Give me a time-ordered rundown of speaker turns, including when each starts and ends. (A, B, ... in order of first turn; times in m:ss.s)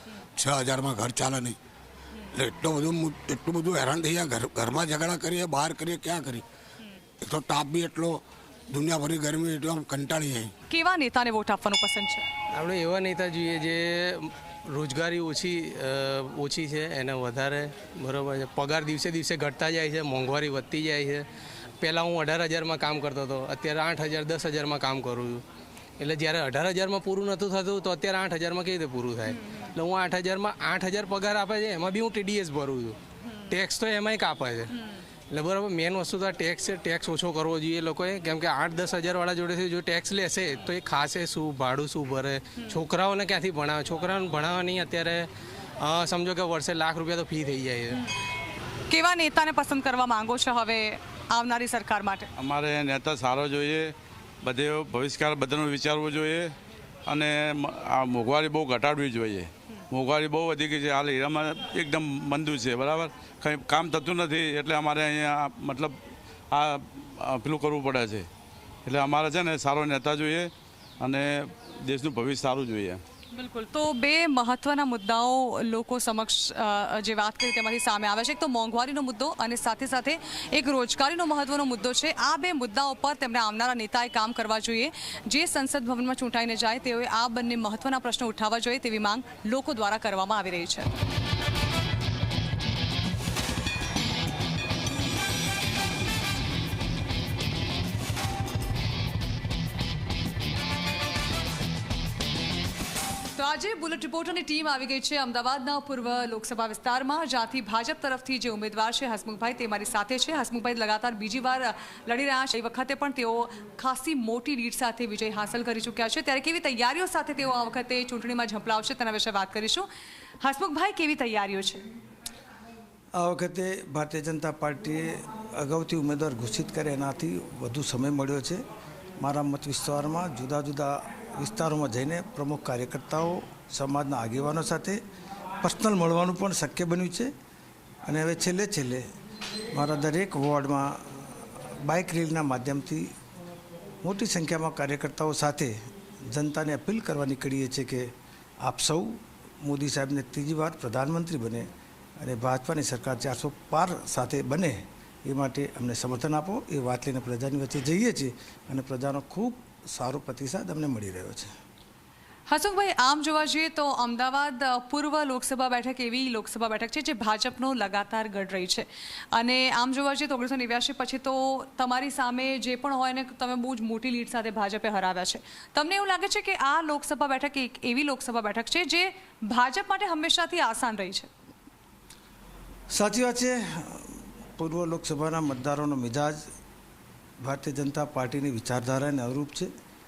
0:00.4-0:01.6 A
0:02.4-0:06.4 A
0:07.2-0:10.5 A
0:10.7-0:12.2 B
0:12.5-0:21.2 C
0:21.8-0:25.4 C
0:26.0-0:33.0 C
0:33.5-0:34.7 C
0:35.3-0:45.3 C
0:45.8-0:48.0 C
0:48.9-0:52.3 B
0:52.4-0:56.5 D
0:57.1-1:08.3 D
1:08.8-1:13.0 D
1:13.3-1:30.9 B
1:43.4-1:59.9 B
2:00.4-2:01.8 B
2:03.2-2:08.6 E
2:09.2-2:15.0 E
2:15.6-2:17.3 E
2:18.0-2:19.1 E
2:19.7-2:21.2 E
2:21.8-2:23.1 E
2:24.0-2:25.8 E
2:26.3-2:41.5 E
2:42.5-3:01.3 B
3:02.9-3:06.5 E
3:07.4-3:09.7 E